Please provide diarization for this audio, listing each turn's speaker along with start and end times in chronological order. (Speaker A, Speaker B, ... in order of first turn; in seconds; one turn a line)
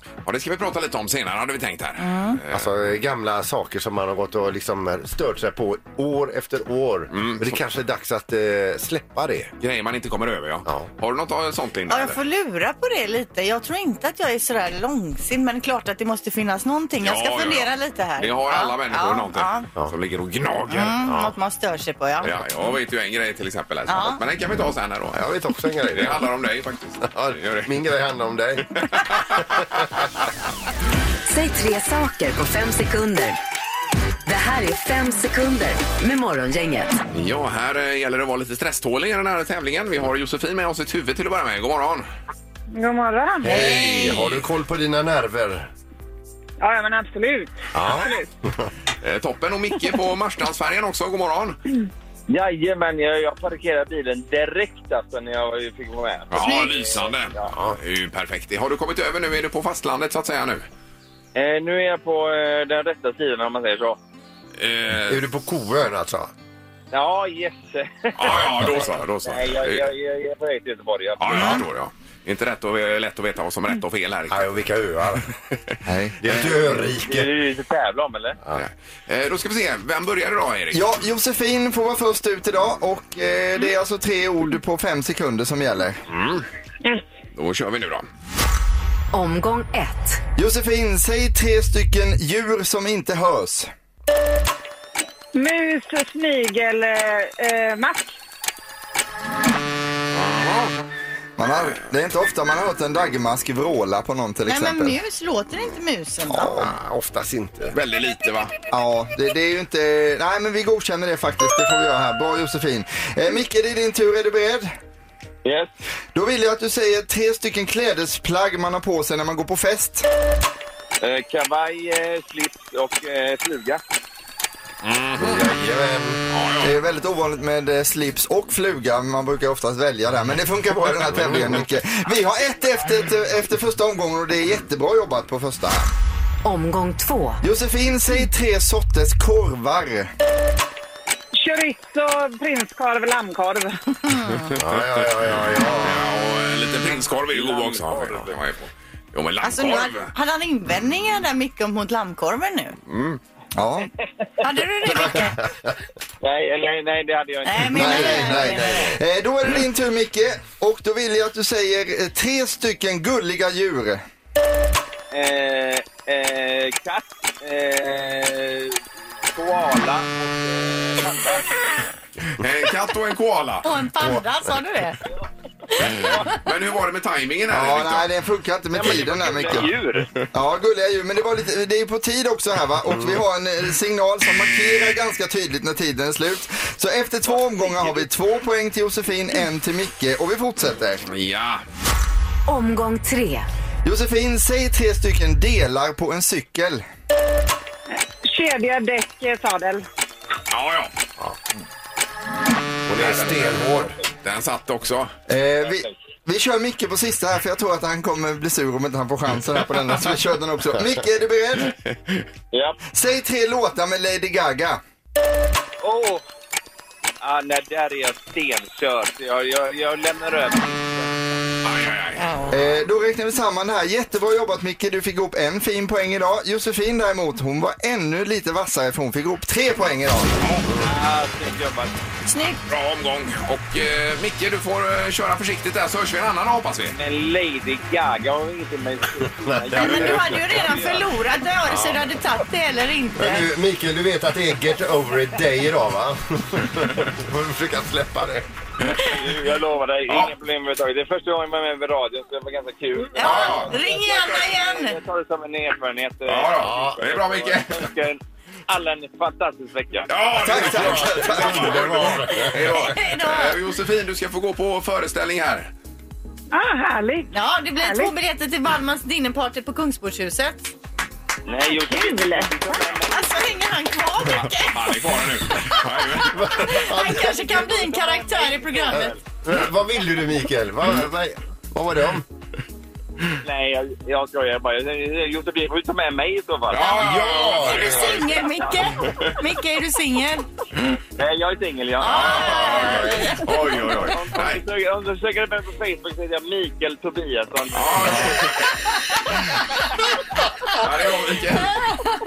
Speaker A: 0.2-2.7
Speaker B: 2.0-2.4
Speaker C: 2.5-9.5
Speaker A: 7.1-7.6
Speaker A: 9.6-12.2
Speaker C: 10.6-10.9
Speaker B: 11.9-19.7
Speaker A: 17.0-21.1
Speaker B: 20.7-22.3
Speaker C: 21.1-21.3
Speaker A: 22.2-25.2
Speaker B: 23.9-24.2
Speaker C: 25.1-26.2
Speaker A: 25.9-27.7
Speaker C: 27.0-29.3
Speaker A: 28.7-29.8
Speaker D: 31.3-33.4
Speaker D: 34.2-37.0
Speaker A: 37.1-42.1
Speaker E: 42.7-43.6
Speaker C: 43.4-45.7
Speaker A: 43.5-44.4
Speaker E: 46.6-48.3
Speaker C: 47.7-48.7
Speaker A: 49.0-51.6
Speaker F: 52.3-57.5
Speaker A: 56.3-60.7
Speaker B: 56.4-56.7
Speaker C: 57.5-57.8
Speaker F: 61.3-64.0
Speaker A: 64.6-65.2
Speaker C: 65.0-66.3
Speaker F: 66.9-71.6
Speaker A: 68.1-69.9
Speaker A: 71.2-74.5
Speaker C: 74.3-75.2
Speaker G: 75.8-76.2
Speaker C: 76.2-77.3
Speaker F: 76.8-78.4
Speaker A: 78.5-80.8
Speaker G: 80.7-86.0
Speaker A: 86.1-86.4
Speaker A: 87.3-88.0
Speaker D: 89.1-90.2
Speaker G: 90.3-93.7
Speaker E: 95.3-98.2
Speaker A: 100.1-100.7
Speaker G: 101.4-105.0
Speaker B: 104.5-106.7
Speaker C: 106.3-107.7
Speaker A: 107.7-108.5
Speaker G: 108.7-114.7
Speaker F: 115.4-115.7
Speaker G: 116.1-120.1
Speaker F: 121.0-123.8
Speaker A: 124.8-125.5
Speaker C: 125.2-126.2
Speaker A: 126.3-126.7
Speaker G: 126.6-135.9
Speaker C: 131.1-131.7
Speaker D: 136.4-137.4
Speaker G: 137.4-140.1
Speaker E: 141.3-143.8
Speaker B: 144.1-144.4
Speaker C: 144.6-146.0
Speaker A: 144.6-145.2
Speaker A: 145.8-150.1
Speaker F: 147.3-148.4
Speaker B: 149.4-152.8
Speaker A: 152.9-153.2
Speaker G: 153.5-153.9
Speaker B: 154.4-155.4
Speaker C: 154.9-155.7
Speaker F: 156.2-158.3
Speaker B: 157.4-158.9
Speaker C: 157.7-158.9
Speaker G: 157.7-164.0
Speaker F: 165.1-171.6
Speaker A: 172.3-173.7
Speaker B: 173.6-175.0
Speaker A: 175.9-178.1
Speaker F: 175.9-176.3
Speaker G: 177.5-179.7
Speaker F: 178.7-180.2
Speaker G: 180.3-191.0
Speaker F: 187.3-188.0
Speaker A: 191.1-191.6
Speaker D: 192.5-193.5
Speaker G: 193.8-196.8
Speaker E: 198.2-199.8
Speaker A: 200.5-200.9
Speaker C: 202.9-203.9
Speaker A: 203.0-203.7
Speaker A: 204.2-205.1
Speaker G: 205.3-211.7
Speaker F: 205.6-205.9
Speaker F: 212.5-212.8
Speaker G: 212.9-214.8
Speaker F: 215.8-216.2
Speaker F: 217.2-221.2
Speaker A: 221.6-222.3
Speaker B: 222.2-222.5
Speaker G: 222.5-230.4
Speaker A: 230.4-230.7
Speaker F: 230.7-232.0
Speaker B: 232.3-232.6
Speaker A: 232.7-236.9
Speaker F: 236.9-241.1
Speaker C: 239.4-240.3
Speaker B: 239.7-243.5
Speaker C: 243.2-248.5
Speaker F: 248.9-260.1
Speaker B: 253.2-254.9
Speaker A: 253.2-253.7
Speaker A: 256.3-257.9
Speaker C: 256.6-257.0
Speaker A: 260.1-265.7
Speaker G: 260.4-262.1
Speaker C: 260.5-262.9
Speaker B: 262.8-263.6
Speaker E: 266.5-267.3
Speaker B: 267.3-270.7
Speaker E: 267.8-268.1
Speaker F: 271.4-273.6
Speaker B: 271.9-272.5
Speaker B: 273.1-279.1
Speaker A: 274.4-276.5
Speaker C: 276.2-277.5
Speaker F: 277.5-279.1
Speaker C: 278.9-282.2
Speaker F: 283.4-286.9
Speaker A: 286.7-288.2
Speaker B: 286.8-290.5
Speaker C: 287.0-288.3
Speaker F: 291.2-298.4
Speaker B: 292.0-293.5
Speaker A: 292.1-294.6
Speaker A: 297.7-298.6
Speaker A: 300.7-301.9